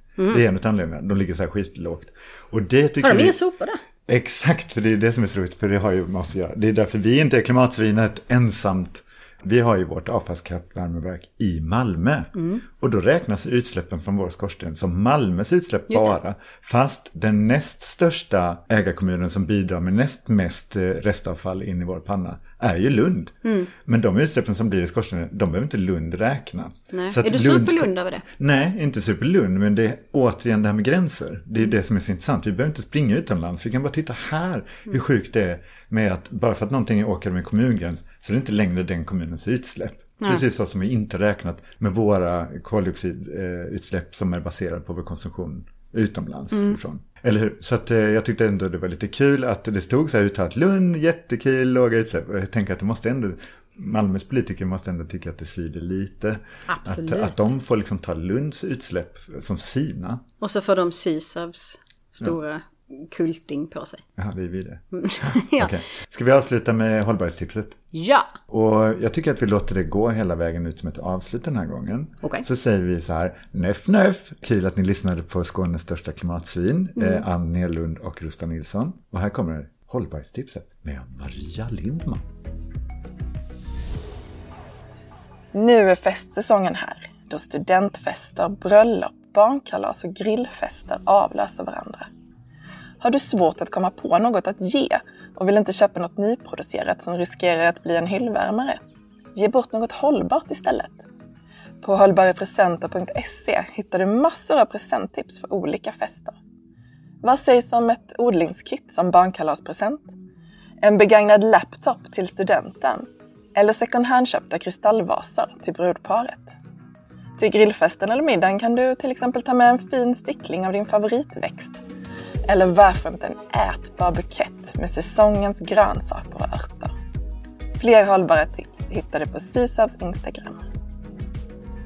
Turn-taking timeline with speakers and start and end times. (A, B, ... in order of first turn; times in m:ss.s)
0:00.3-0:03.4 A
0:03.0-0:03.8 B
0:04.1-1:00.2 A
0:12.4-0:12.6 B
0:15.9-0:16.2 B
0:23.4-0:23.7 B
0:26.9-0:28.2 B
0:46.5-0:46.8 B
0:56.7-0:57.5 B
1:00.4-1:04.0 B
1:04.2-1:07.8 A
1:04.9-1:05.7 B
1:07.9-1:08.3 B
1:08.5-1:22.3 A
1:17.0-1:17.2 B
1:25.5-1:32.0 C
1:33.0-1:38.8 C
1:39.4-1:41.0 C
1:41.8-1:46.4 C
1:47.2-1:50.1 C
1:50.8-1:53.0 C
1:53.6-1:56.5 C
1:57.4-2:01.8 C
2:02.5-2:06.9 C
2:07.8-2:10.6 C